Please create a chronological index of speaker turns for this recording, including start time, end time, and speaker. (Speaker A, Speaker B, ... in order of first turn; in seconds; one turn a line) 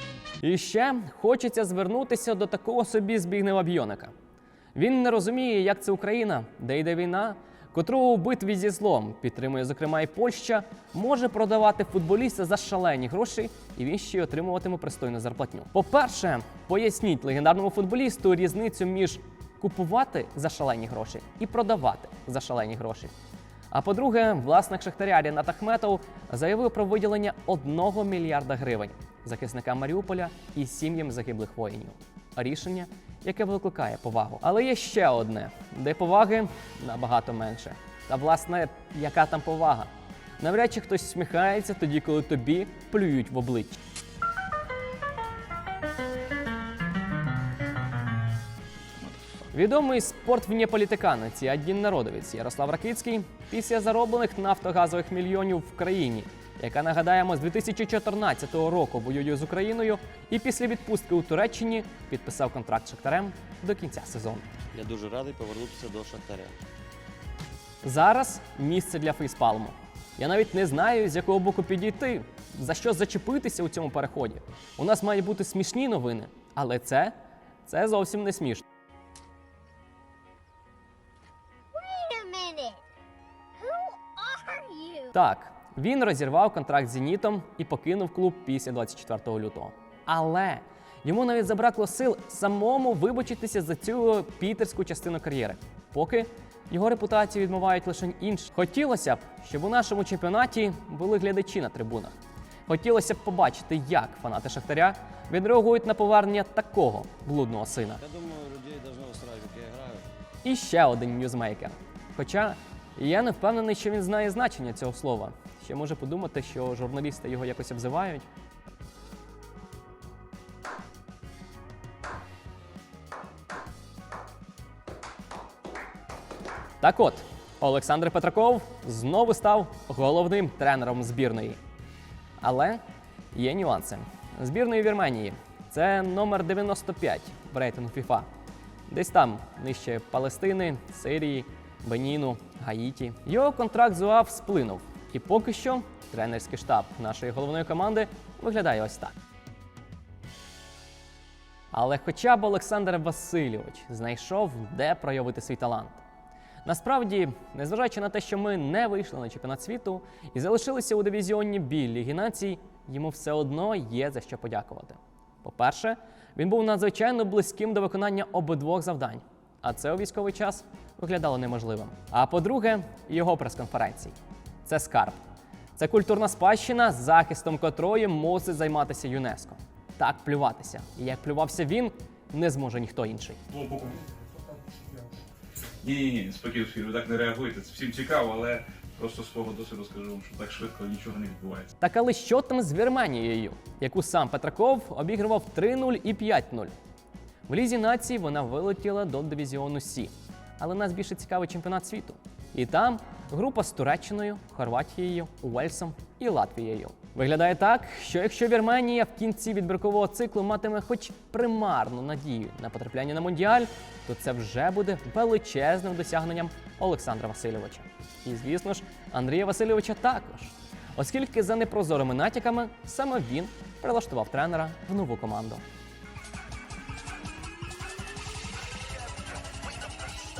Speaker A: 0.4-4.1
Speaker A: 4.7-23.1
Speaker A: 23.7-43.8
Speaker B: 49.0-49.3
Speaker A: 49.5-64.5
Speaker C: 64.7-66.5
Speaker A: 67.8-77.1
Speaker A: 77.7-78.6
Speaker C: 81.7-82.8
Speaker C: 83.6-85.1
Speaker A: 85.1-102.1
Speaker A: 102.7-108.0
Speaker C: 108.0-110.1
Speaker A: 110.4-118.3
Speaker A: 126.8-131.6
Speaker A: 132.4-132.8
Speaker A: 133.3-138.3
Speaker A: 138.9-149.1
Speaker A: 151.7-156.0
Speaker A: 156.6-175.2
Speaker A: 175.8-183.4
Speaker B: 183.5-185.1
Speaker B: 185.8-191.7
Speaker A: 191.8-196.7
Speaker A: 197.5-225.6